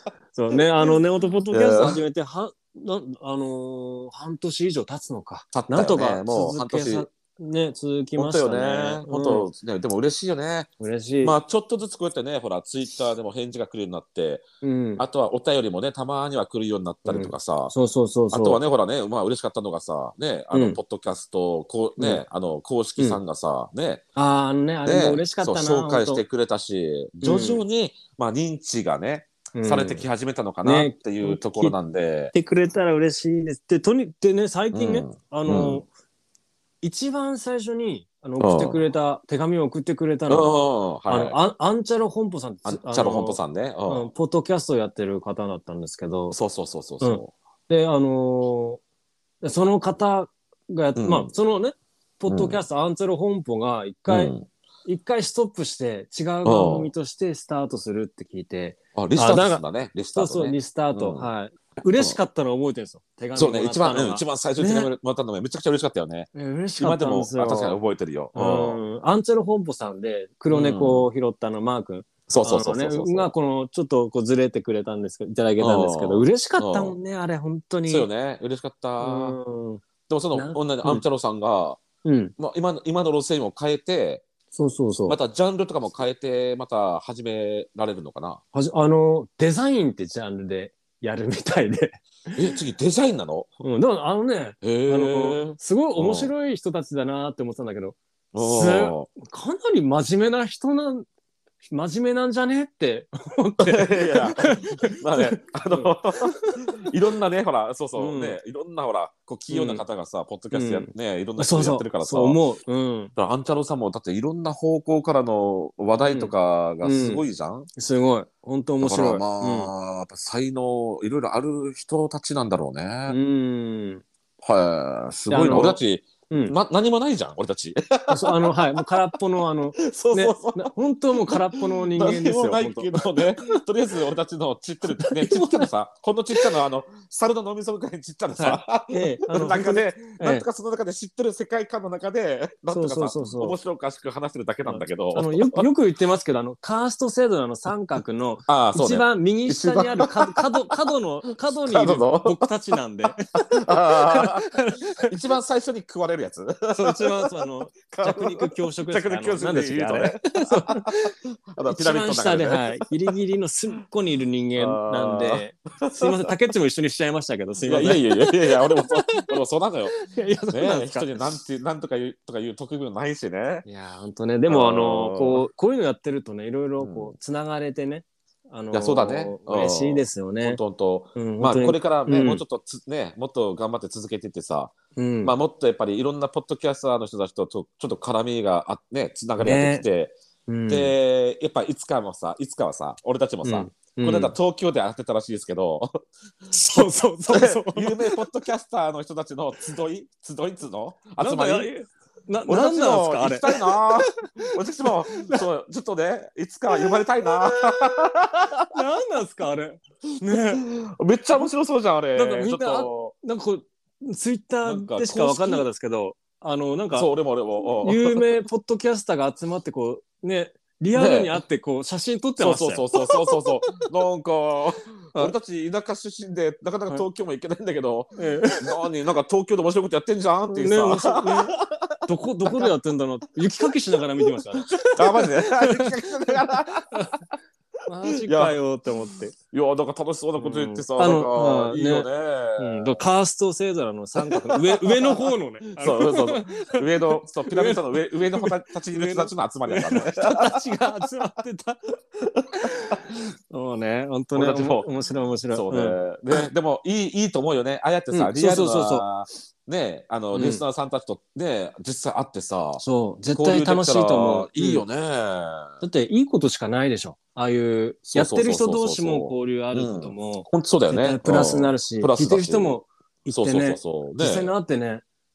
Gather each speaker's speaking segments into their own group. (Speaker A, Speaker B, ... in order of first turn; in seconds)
Speaker A: 0.3-9.5, 10.8-11.3, 14.6-15.1, 17.0-18.6, 20.5-20.8, 22.0-22.2, 24.1-26.2, 27.2-27.6, 29.5-30.0, 30.6-31.8, 32.3-35.9, 36.8-40.5, 41.1-46.4, 47.0-48.8, 49.4-64.9, 66.3-67.8, 68.3-78.1, 79.0-79.8, 80.3-81.0, 82.0-82.3, 84.5-85.2, 88.5-92.5, 93.6-101.1, 101.7-106.9, 108.0-108.4, 109.5-109.8, 110.5-113.1, 116.0-117.2, 117.7-119.7, 123.1-124.0, 125.3-126.5, 128.1-133.6, 134.8-135.7, 138.3-140.4, 142.7-143.6, 144.6-155.1, 156.7-161.1, 161.7-169.3, 169.9-171.2, 173.6-180.6, 181.1-182.4, 184.9-185.3, 189.4-189.8, 190.5-190.9, 193.4-194.3, 196.5-198.2, 201.2-204.0, 204.8-205.4, 206.7-207.9, 208.7-210.6, 212.1-217.1, 217.8-223.7, 228.2-228.7, 230.5-236.4, 236.9-237.2, 237.9-239.3, 240.4-251.8, 252.5-256.0, 258.1-259.1, 260.3-260.6, 262.8-264.8, 265.8-275.0
Speaker B: 0.5-1.0, 1.5-2.0, 5.5-7.0, 8.2-10.7, 11.2-14.4, 15.0-17.7, 18.3-24.0, 24.8-32.3, 34.7-35.8, 38.4-38.8, 40.3-41.4, 42.6-44.1, 46.3-47.3, 51.0-51.3, 52.3-52.6, 54.1-54.5, 56.4-56.9, 58.9-61.3, 63.4-68.8, 70.5-71.1, 72.3-73.3, 75.6-77.0, 77.8-79.4, 80.1-81.8, 82.4-84.2, 85.1-88.4, 92.3-93.5, 94.6-96.3, 98.3-99.1, 103.6-112.4, 113.2-117.7, 118.8-123.2, 124.4-128.8, 129.8-145.7, 148.5-150.5, 151.5-152.4, 153.4-154.4, 155.1-157.3, 157.9-160.9, 161.5-162.8, 164.6-166.3, 167.7-169.9, 170.5-173.6, 174.5-175.4, 176.8-177.1, 178.7-190.2, 190.7-196.1, 196.7-201.7, 202.5-208.7, 210.2-213.1, 214.6-215.7, 216.9-218.3, 220.9-221.4, 222.4-232.7, 234.8-237.1, 238.1-238.6, 239.5-243.0, 244.2-250.6, 252.3-253.0, 254.3-254.9, 255.5-265.7, 268.1-274.5